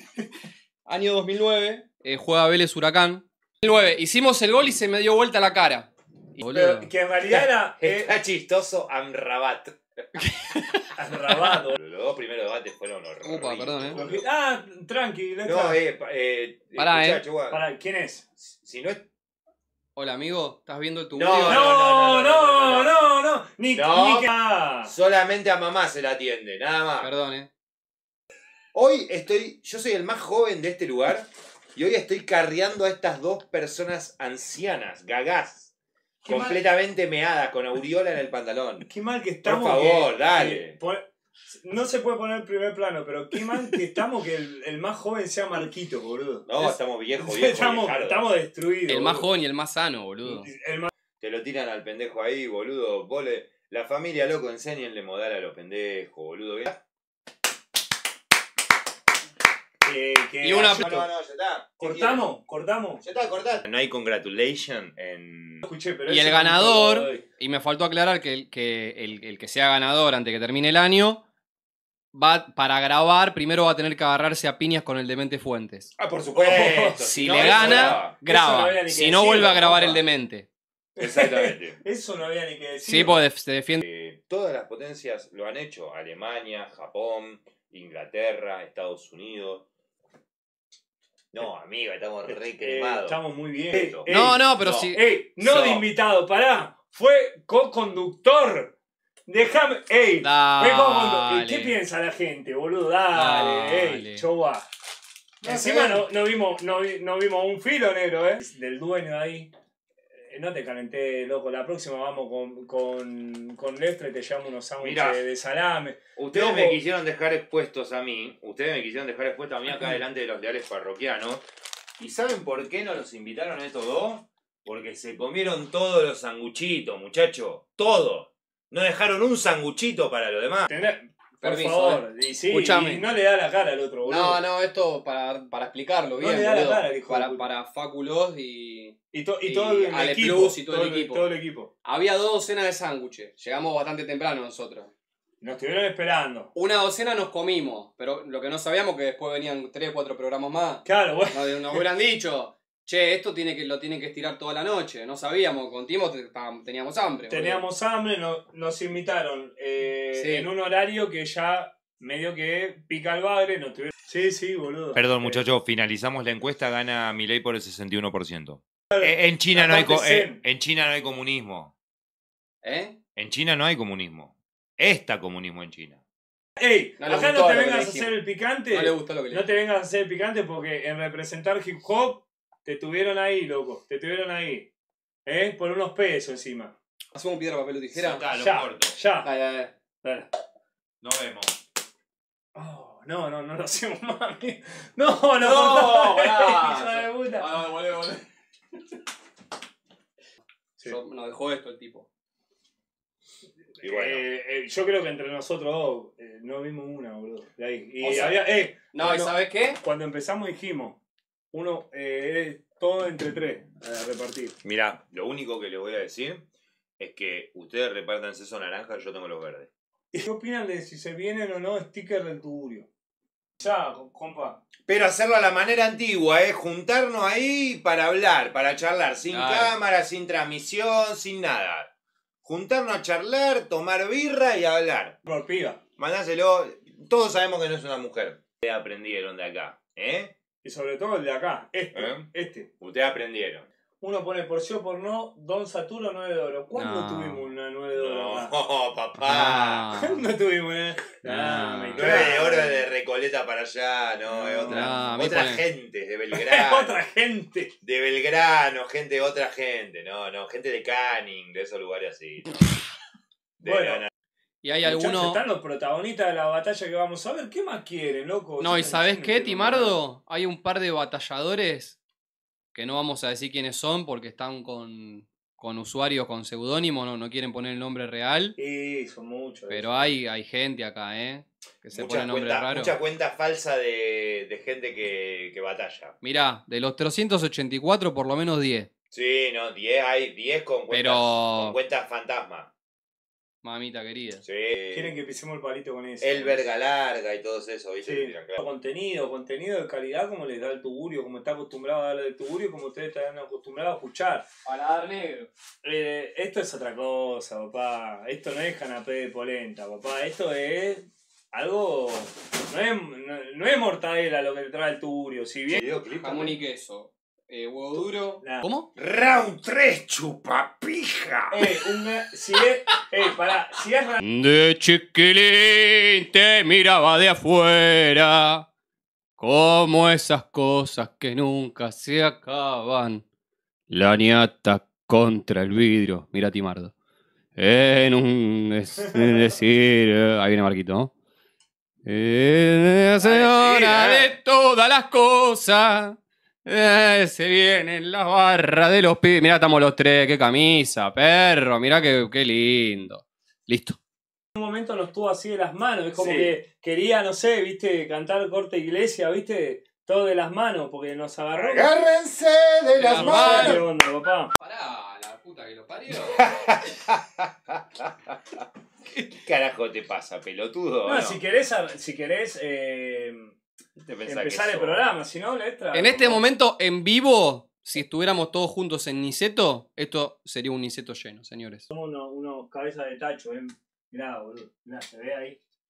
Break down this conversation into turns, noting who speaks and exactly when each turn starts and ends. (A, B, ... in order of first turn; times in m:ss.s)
0:00.8-0:06.9 A
0:06.5-0:08.2 B
0:07.3-0:09.8 C
0:10.2-0:10.9 A
0:11.0-0:11.8 B
0:11.7-0:14.2 C
0:13.2-0:14.0 A
0:13.9-0:15.8 B
0:15.4-0:17.6 C
0:16.8-0:17.2 A
0:17.5-0:18.3 B
0:18.5-0:19.0 C
0:20.0-0:21.7 A
0:21.1-0:22.9 C
0:21.4-0:24.9 B
0:23.7-0:24.3 C
0:24.8-0:27.1 C
0:27.0-0:27.5 A
0:28.7-0:35.7 C
0:36.2-0:36.6 B
0:36.2-0:38.9 C
0:38.8-0:49.3 B
0:39.4-0:40.8 C
0:46.5-0:48.3 C
0:48.9-0:50.5 A
0:50.2-0:50.9 B
0:51.2-0:56.8 C
0:59.8-1:01.1 B
1:00.4-1:00.8 A
1:00.8-1:02.2 C
1:01.8-1:03.0 B
1:03.0-1:05.6 C
1:05.6-1:07.2 B
1:06.1-1:11.2 A
1:12.1-1:15.9 A
1:16.0-1:18.1 C
1:16.3-1:19.9 B
1:17.0-1:20.5 A
1:19.4-1:20.0 C
1:21.0-1:23.2 B
1:21.0-1:21.8 C
1:22.8-1:23.8 A
1:23.8-1:29.6 C
1:31.3-1:33.2 C
1:32.3-1:34.4 B
1:33.7-1:34.9 C
1:34.1-1:35.8 A
1:34.9-1:38.7 B
1:39.3-1:44.7 B
1:40.2-1:41.8 A
1:43.1-1:44.2 A
1:45.4-1:46.0 C
1:45.4-1:49.5 B
1:50.2-1:56.8 B
1:54.8-1:55.2 C
1:56.2-2:01.4 C
2:02.0-2:10.7 C
2:10.7-2:14.4 B
2:11.4-2:13.1 A
2:14.0-2:21.3 A
2:16.2-2:17.5 B
2:19.1-2:21.7 B
2:21.8-2:24.9 A
2:25.4-2:26.5 B
2:26.5-2:37.6 A
2:30.8-2:31.8 B
2:37.3-2:45.4 B
2:40.1-2:40.5 A
2:44.9-2:51.7 C
2:48.9-2:50.4 B
2:52.6-2:53.0 A
2:53.2-2:56.0 C
2:56.6-3:04.7 B
2:57.0-2:58.2 A
2:58.7-2:59.6 A
3:05.2-3:06.7 B
3:07.1-3:08.2 A
3:07.9-3:08.9 C
3:08.3-3:09.3 B
3:09.2-3:09.7 A
3:10.0-3:10.3 B
3:11.0-3:11.5 C
3:12.5-3:17.5 B
3:15.4-3:18.2 A
3:20.8-3:22.1 A
3:23.8-3:24.2 C
3:23.8-3:31.0 B
3:28.0-3:28.4 A
3:28.9-3:29.8 A
3:31.5-3:34.6 B
3:34.6-3:36.4 C
3:37.0-3:39.7 C
3:40.1-3:42.9 B
3:43.6-3:44.6 B
3:44.9-3:51.9 C
3:49.3-3:49.8 A
3:52.4-3:55.2 C
3:55.2-3:55.8 B
3:56.0-4:00.3 C
4:00.6-4:02.7 B
4:01.9-4:02.3 C
4:02.8-4:03.7 C
4:04.0-4:08.5 B
4:06.7-4:07.5 A
4:07.9-4:09.8 C
4:09.2-4:10.2 A
4:09.9-4:12.9 B
4:11.2-4:12.3 A
4:11.9-4:17.0 C
4:14.3-4:14.9 B
4:14.7-4:15.6 A
4:16.3-4:17.7 B
4:17.8-4:22.7 C
4:23.6-4:24.1 C
4:23.6-4:24.0 B
4:24.6-4:25.4 A
4:24.8-4:30.0 B
4:28.6-4:32.0 A
4:32.7-4:38.6 A
4:38.6-4:40.1 B
4:39.7-4:43.0 A
4:41.9-4:46.1 C
4:46.2-4:48.9 A
4:49.1-4:52.7 C
4:50.9-4:51.8 A
4:53.6-4:54.4 A
4:54.4-4:55.1 C
4:54.9-4:56.6 B
4:56.2-4:58.6 C
4:58.0-5:04.4 B
5:04.6-5:05.5 A
5:05.8-5:15.8 B
5:15.7-5:16.5 C
5:16.2-5:18.9 A
5:18.4-5:18.7 B
5:19.0-5:21.7 C
5:21.5-5:24.2 B
5:24.2-5:28.6 A
5:29.4-5:33.2 A
5:33.9-5:36.9 A
5:37.6-5:41.1 A
5:42.0-5:54.0 A
5:43.2-5:44.3 B
5:54.5-6:01.9 B
5:56.2-5:56.5 C
6:01.5-6:03.8 C
6:03.0-6:03.9 A
6:03.1-6:04.5 B
6:04.6-6:06.5 A
6:06.1-6:08.4 C
6:09.1-6:11.4 C
6:11.0-6:13.5 B
6:14.0-6:15.0 C
6:14.2-6:16.4 B
6:15.9-6:21.8 A
6:21.9-6:25.6 B